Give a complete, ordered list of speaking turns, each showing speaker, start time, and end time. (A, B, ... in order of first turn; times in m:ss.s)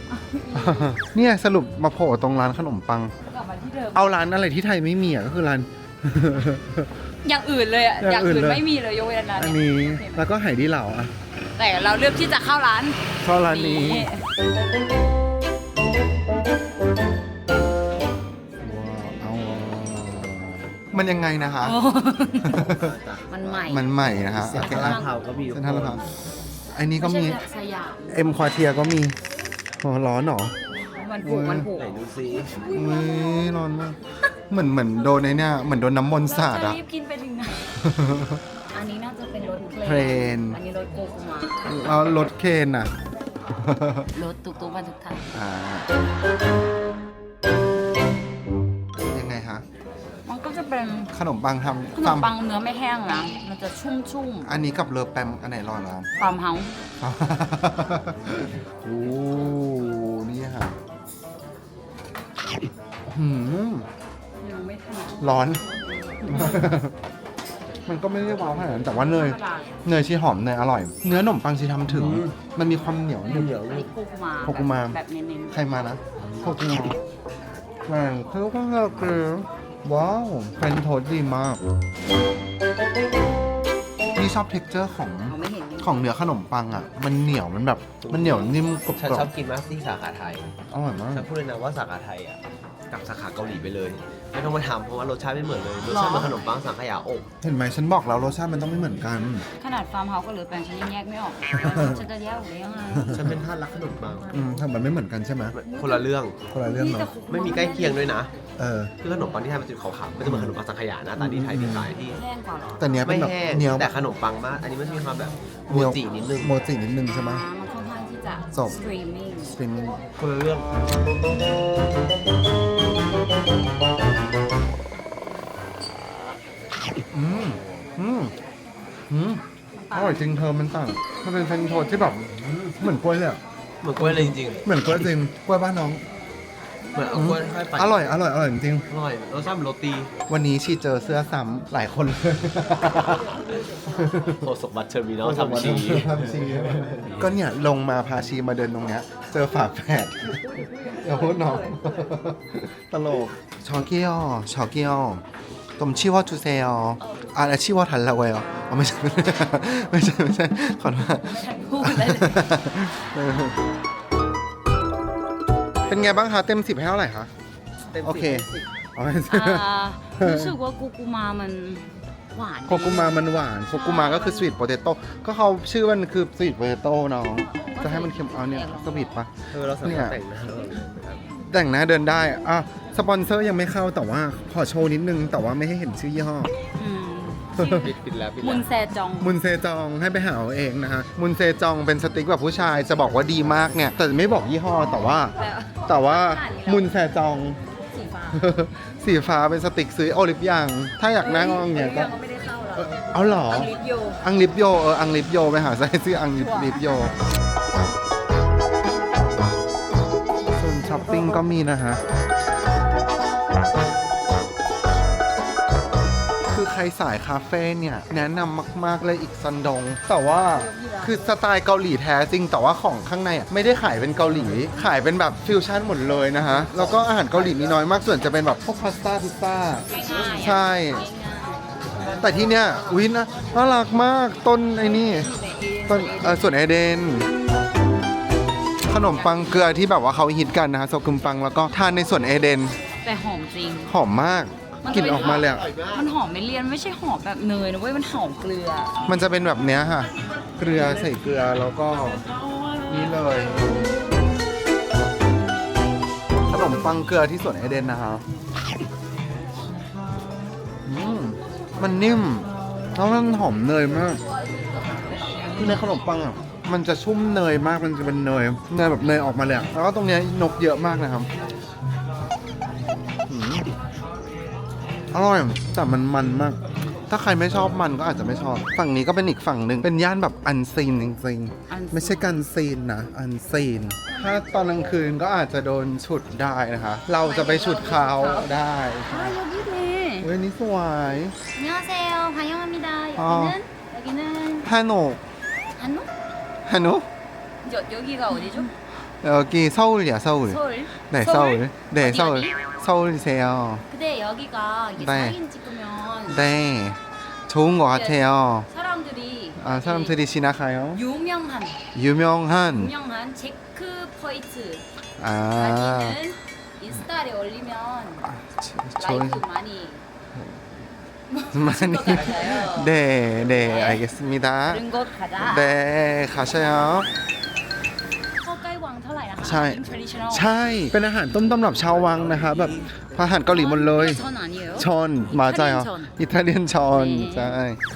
0:00.1-0:01.2 A
0:00.5-0:03.1 B
0:03.2-0:04.1 A
0:04.0-0:06.9 B
0:07.2-0:10.2 A
0:08.0-0:08.6 B
0:09.4-0:11.1 B
0:11.6-0:14.2 A
0:13.2-0:14.1 B
0:18.6-0:21.8 B
0:21.6-0:22.6 A
0:22.4-0:22.9 B
0:22.6-0:23.3 C
0:23.3-0:23.9 A
0:23.5-0:26.0 B
0:24.3-0:26.1 C
0:24.6-0:25.1 A
0:26.8-0:27.4 B
0:27.0-0:28.2 A
0:28.1-0:29.2 B
0:29.8-0:30.6 B
0:31.0-0:33.5 A
0:31.2-0:31.7 B
0:31.8-0:32.6 C
0:32.7-0:34.0 B
0:34.5-0:36.8 B
0:36.2-0:37.6 A
0:37.8-0:38.4 B
0:38.7-0:41.7 A
0:39.8-0:40.6 B
0:41.6-0:42.9 B
0:43.5-0:44.1 B
0:44.1-0:45.3 A
0:45.3-0:45.9 B
0:49.0-0:49.6 B
0:50.2-0:51.1 A
0:51.1-0:52.3 B
0:52.0-0:54.5 A
0:54.4-0:56.1 B
0:56.2-0:56.7 A
0:57.0-1:00.8 B
1:03.1-1:03.9 B
1:04.4-1:05.3 A
1:05.2-1:05.6 B
1:06.2-1:06.6 A
1:06.2-1:07.0 B
1:07.9-1:13.6 B
1:08.5-1:08.8 C
1:08.9-1:09.8 A
1:11.9-1:12.4 C
1:13.3-1:13.9 C
1:13.6-1:15.8 A
1:14.4-1:15.0 B
1:15.5-1:17.0 B
1:17.9-1:21.6 B
1:24.2-1:29.3 B
1:25.3-1:26.0 A
1:28.0-1:30.5 C
1:30.7-1:31.3 B
1:31.1-1:32.4 C
1:32.9-1:37.3 C
1:35.8-1:36.4 A
1:37.4-1:39.5 B
1:39.6-1:43.2 A
1:41.5-1:42.0 B
1:42.9-1:43.3 B
1:43.1-1:44.4 C
1:44.3-1:45.6 B
1:45.5-1:46.5 C
1:45.7-1:46.0 A
1:46.5-1:47.1 B
1:46.6-1:48.2 A
1:47.3-1:48.3 C
1:48.6-1:48.9 B
1:49.0-1:52.2 C
1:50.2-1:50.6 B
1:51.2-1:51.9 B
1:52.0-1:53.1 A
1:52.8-1:53.9 B
1:53.0-1:56.6 C
1:55.7-1:57.5 B
1:57.1-1:59.6 A
1:59.5-2:00.0 B
2:00.1-2:00.7 C
2:07.1-2:08.3 B
2:09.1-2:12.2 B
2:09.9-2:10.2 A
2:12.2-2:12.8 C
2:12.8-2:13.4 B
2:13.8-2:15.1 C
2:14.0-2:16.0 B
2:16.9-2:17.5 A
2:16.9-2:18.1 C
2:17.1-2:18.9 B
2:18.9-2:20.1 C
2:20.3-2:24.5 B
2:23.0-2:23.7 C
2:24.4-2:27.3 C
2:25.2-2:30.4 B
2:30.3-2:32.2 A
2:30.9-2:35.2 B
2:35.8-2:43.6 B
2:37.0-2:37.4 A
2:41.2-2:42.6 A
2:45.9-2:47.3 B
2:47.9-2:48.7 C
2:48.0-2:50.6 B
2:49.3-2:54.5 A
2:52.7-2:59.3 B
2:57.6-2:59.1 A
2:59.5-3:01.2 C
2:59.8-3:00.2 B
3:01.5-3:06.5 B
3:06.8-3:09.4 A
3:07.6-3:07.9 B
3:07.8-3:08.7 C
3:09.2-3:15.3 B
3:15.3-3:17.0 A
3:15.9-3:17.6 B
3:17.9-3:18.5 A
3:18.3-3:22.1 B
3:21.2-3:24.2 A
3:22.8-3:27.1 B
3:26.4-3:27.0 A
3:30.6-3:32.0 B
3:36.5-3:51.1 B
3:40.5-3:41.3 A
3:44.2-3:44.7 C
3:47.0-3:47.6 C
3:49.9-3:51.8 A
3:50.0-3:50.6 C
3:51.9-3:52.8 C
3:52.2-3:55.3 B
3:54.8-3:56.6 A
3:55.9-3:57.3 B
3:58.9-4:02.8 B
3:59.1-3:59.5 A
4:03.0-4:03.9 A
4:03.9-4:05.7 B
4:04.8-4:09.0 A
4:05.0-4:06.0 C
4:09.1-4:12.2 B
4:12.9-4:13.8 B
4:16.5-4:18.2 B
4:20.8-4:24.2 B
4:24.5-4:25.6 A
4:25.6-4:31.3 B
4:33.3-4:33.7 B
4:35.1-4:49.4 B
4:41.7-4:42.4 A
4:44.1-4:44.5 A
4:47.2-4:48.6 A
4:49.1-4:50.3 A
4:50.2-4:51.4 B
4:51.6-4:54.7 A
4:53.2-4:53.6 B
4:54.6-4:55.2 B
4:55.8-4:56.1 A
4:56.6-4:57.1 B
4:57.6-4:58.7 A
4:59.2-5:03.8 B
5:00.5-5:02.6 A
5:03.9-5:06.4 A
5:05.0-5:05.4 B
5:06.3-5:08.7 B
5:07.9-5:10.2 A
5:09.6-5:11.0 B
5:10.9-5:11.8 A
5:11.9-5:12.9 B
5:12.7-5:14.8 A
5:15.2-5:16.2 B
5:15.6-5:18.3 A
5:18.2-5:19.4 B
5:19.0-5:20.0 A
5:20.4-5:20.6 B
5:21.3-5:22.9 A
5:21.5-5:24.8 B
5:23.5-5:24.0 A
5:24.7-5:25.8 A
5:25.4-5:27.1 B
5:28.4-5:30.5 A
5:29.4-5:34.2 B
5:31.6-5:33.4 C
5:33.4-5:36.1 A
5:34.8-5:37.8 B
5:36.9-5:37.6 A